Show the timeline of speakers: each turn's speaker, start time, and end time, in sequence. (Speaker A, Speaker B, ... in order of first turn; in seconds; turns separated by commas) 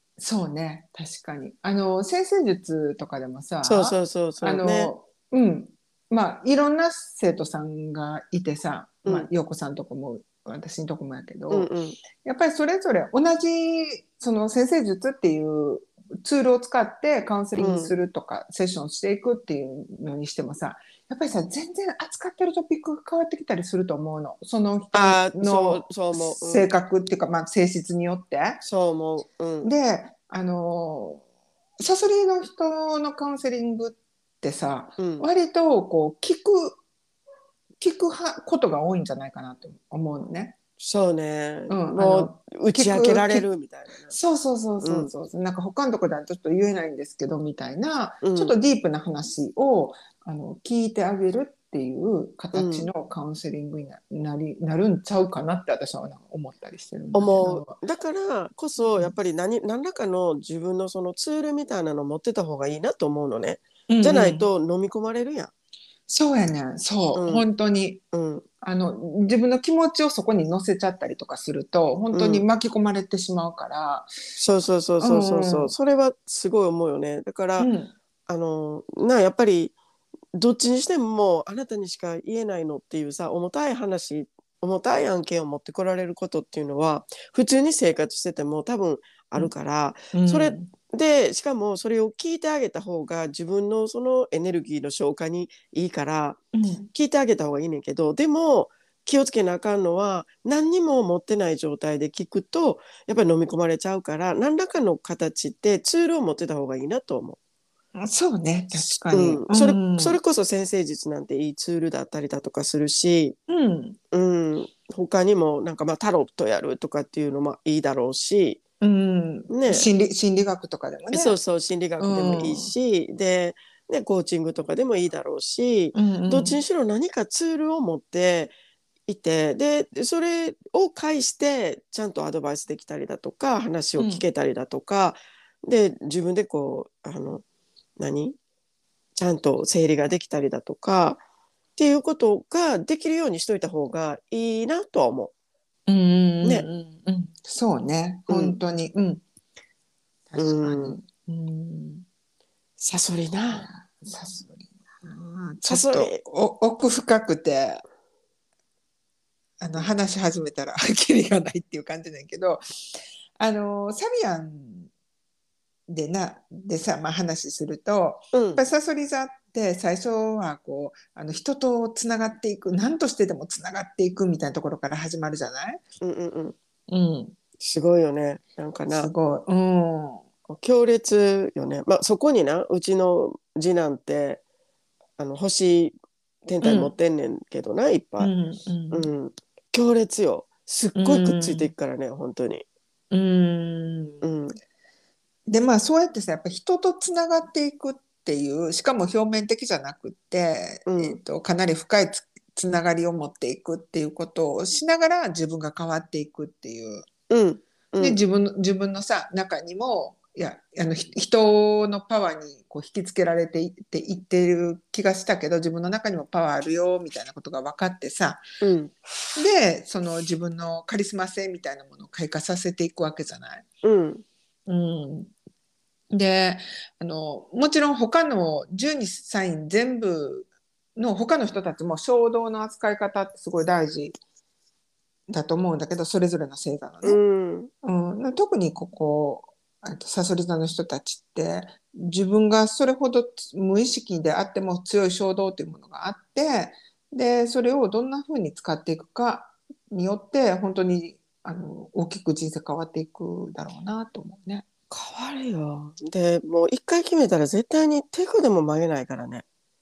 Speaker A: 0.2-28.6, Speaker B: 3.6-4.9, Speaker B: 11.5-12.0, Speaker B: 17.6-17.9, Speaker B: 24.9-26.7, Speaker B: 28.6-29.7, Speaker A: 29.6-31.2, Speaker A: 31.8-36.8, Speaker B: 35.0-35.3, Speaker A: 37.8-40.5, Speaker B: 40.8-44.1, Speaker A: 41.7-43.5, Speaker A: 44.1-57.8, Speaker B: 44.8-45.1, Speaker B: 48.2-48.6, Speaker B: 52.5-52.9, Speaker B: 57.1-65.5, Speaker A: 63.9-64.5, Speaker A: 66.1-68.0, Speaker B: 67.1-67.5, Speaker B: 68.1-68.5, Speaker A: 68.6-74.1, Speaker B: 72.1-72.5, Speaker B: 74.4-77.7, Speaker A: 75.0-75.7, Speaker A: 77.6-77.9, Speaker B: 78.3-79.7, Speaker B: 80.3-107.4, Speaker A: 90.1-90.7, Speaker A: 96.5-96.9, Speaker A: 108.0-110.2, Speaker B: 109.1-113.4, Speaker A: 113.5-114.0, Speaker B: 114.1-118.6, Speaker A: 118.8-121.4, Speaker B: 119.5-119.9, Speaker B: 121.1-128.5, Speaker A: 122.0-122.7, Speaker A: 125.9-126.6, Speaker B: 129.1-137.4, Speaker A: 134.0-134.2, Speaker B: 138.0-138.3, Speaker B: 139.2-141.2, Speaker B: 141.8-145.3, Speaker A: 145.9-149.2, Speaker B: 148.3-148.6, Speaker A: 150.3-152.1, Speaker B: 150.4-151.0, Speaker B: 152.8-153.7, Speaker A: 153.5-157.8, Speaker B: 155.7-156.2, Speaker A: 159.6-162.6, Speaker A: 163.4-164.9, Speaker A: 165.9-175.8, Speaker B: 168.3-168.6, Speaker B: 176.0-176.6, Speaker A: 176.9-177.3, Speaker B: 177.6-179.1, Speaker A: 178.9-180.2, Speaker B: 180.5-184.4, Speaker B: 185.2-185.9, Speaker B: 186.5-188.3, Speaker A: 186.6-186.9, Speaker A: 188.2-189.1, Speaker B: 188.9-192.7, Speaker A: 191.0-191.7, Speaker A: 193.1-194.2, Speaker B: 194.2-194.6, Speaker A: 195.5-207.1, Speaker B: 200.9-201.2, Speaker B: 207.3-208.2, Speaker A: 208.0-218.4, Speaker B: 218.6-218.9, Speaker A: 219.3-223.7, Speaker B: 223.8-224.2, Speaker A: 224.7-225.3, Speaker A: 226.1-234.2, Speaker A: 235.3-237.2, Speaker B: 237.0-237.7, Speaker A: 237.8-254.7, Speaker B: 254.9-259.4